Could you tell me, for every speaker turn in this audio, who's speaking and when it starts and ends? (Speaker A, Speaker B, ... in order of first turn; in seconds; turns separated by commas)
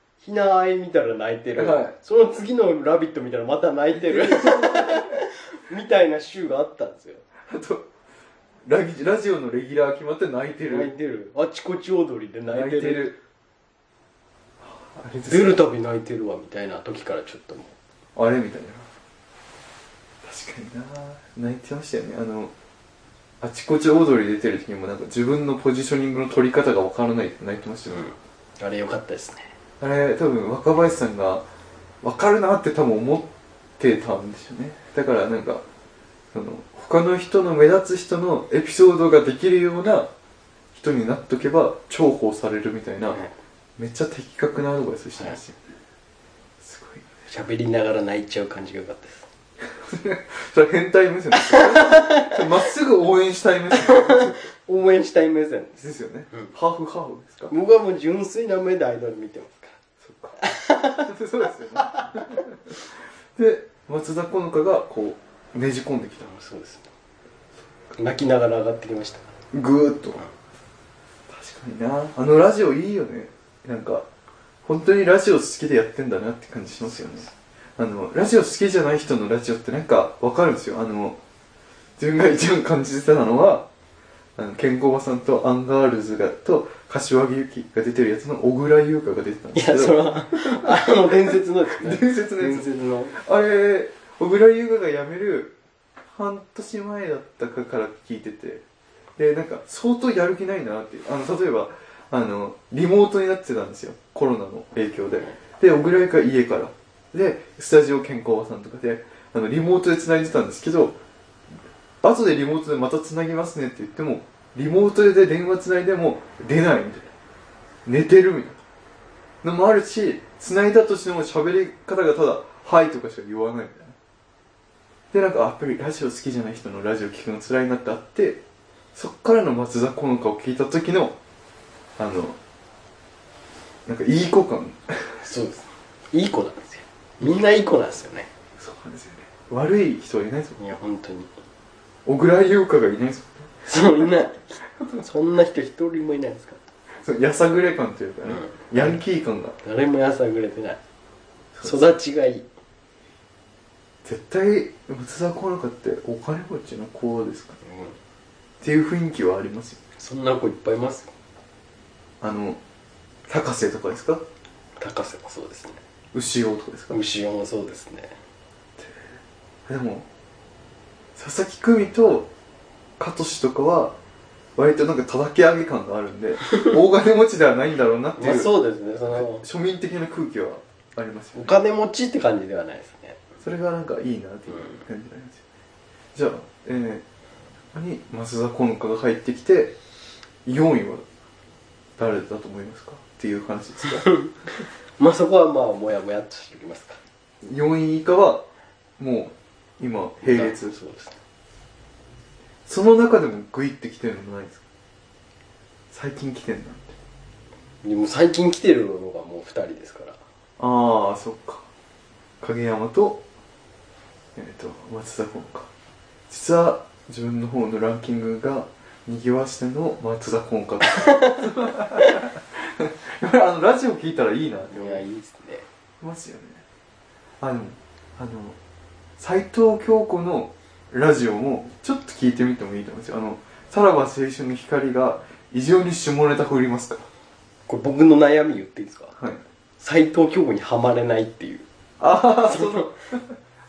Speaker A: 0.2-7.2, Speaker B: 1.6-1.9, Speaker B: 3.9-5.1, Speaker B: 7.5-7.9, Speaker B: 8.7-10.9, Speaker A: 10.7-13.2, Speaker B: 12.5-13.2, Speaker B: 14.6-15.6, Speaker A: 15.3-17.8, Speaker B: 18.2-18.9, Speaker B: 20.2-22.5, Speaker B: 23.4-28.1, Speaker A: 27.9-29.5, Speaker B: 29.8-31.4, Speaker B: 32.0-35.6, Speaker B: 36.3-40.1, Speaker B: 40.7-43.2, Speaker B: 43.8-45.6, Speaker B: 46.6-47.1, Speaker A: 47.3-49.3, Speaker B: 49.8-54.4, Speaker A: 51.5-52.3, Speaker A: 53.7-56.5, Speaker B: 55.8-57.5, Speaker A: 57.5-59.8, Speaker B: 60.0-62.8, Speaker A: 60.4-61.1, Speaker B: 63.4-66.3, Speaker A: 66.2-66.9, Speaker A: 67.9-69.3, Speaker B: 69.5-70.2, Speaker B: 71.3-74.1, Speaker B: 74.7-81.2, Speaker B: 82.0-83.7, Speaker B: 84.4-95.5, Speaker A: 89.5-93.2, Speaker B: 96.1-98.6, Speaker B: 99.2-111.0, Speaker B: 112.0-117.1, Speaker B: 117.9-118.6, Speaker B: 119.4-124.0, Speaker B: 125.1-128.4, Speaker B: 128.9-131.2, Speaker B: 132.0-132.4, Speaker B: 133.9-135.2, Speaker A: 135.2-138.3, Speaker B: 138.6-140.6, Speaker A: 140.6-141.3, Speaker B: 142.1-143.5, Speaker A: 143.6-146.6, Speaker B: 147.0-149.6, Speaker A: 148.3-148.9, Speaker A: 149.6-150.8, Speaker B: 151.6-151.9, Speaker A: 151.6-152.5, Speaker B: 154.1-157.6, Speaker A: 157.6-158.0, Speaker B: 158.6-159.8, Speaker A: 160.0-161.1, Speaker B: 162.2-162.6, Speaker B: 163.3-164.2, Speaker A: 164.8-165.8, Speaker B: 166.1-167.0, Speaker A: 166.9-168.2, Speaker B: 168.8-169.1, Speaker B: 169.7-170.1, Speaker B: 171.2-172.3, Speaker B: 173.0-174.0, Speaker B: 174.6-178.6, Speaker A: 178.2-179.5, Speaker B: 179.1-181.6, Speaker A: 181.3-183.2, Speaker B: 183.4-185.4, Speaker B: 186.1-187.0, Speaker B: 187.7-189.8, Speaker B: 190.4-191.0, Speaker B: 192.0-194.2, Speaker A: 195.0-197.0, Speaker B: 197.4-198.5, Speaker B: 199.0-200.8, Speaker A: 200.2-201.2, Speaker B: 202.7-204.6, Speaker B: 205.9-206.9, Speaker A: 207.8-210.2, Speaker B: 210.6-211.7, Speaker B: 212.4-213.2, Speaker B: 214.4-215.7, Speaker B: 216.3-225.0, Speaker A: 224.7-225.7, Speaker B: 226.0-226.6, Speaker B: 227.4-228.6, Speaker B: 229.2-237.1, Speaker A: 237.7-239.1, Speaker A: 239.8-241.7, Speaker B: 242.0-243.2, Speaker A: 242.5-242.9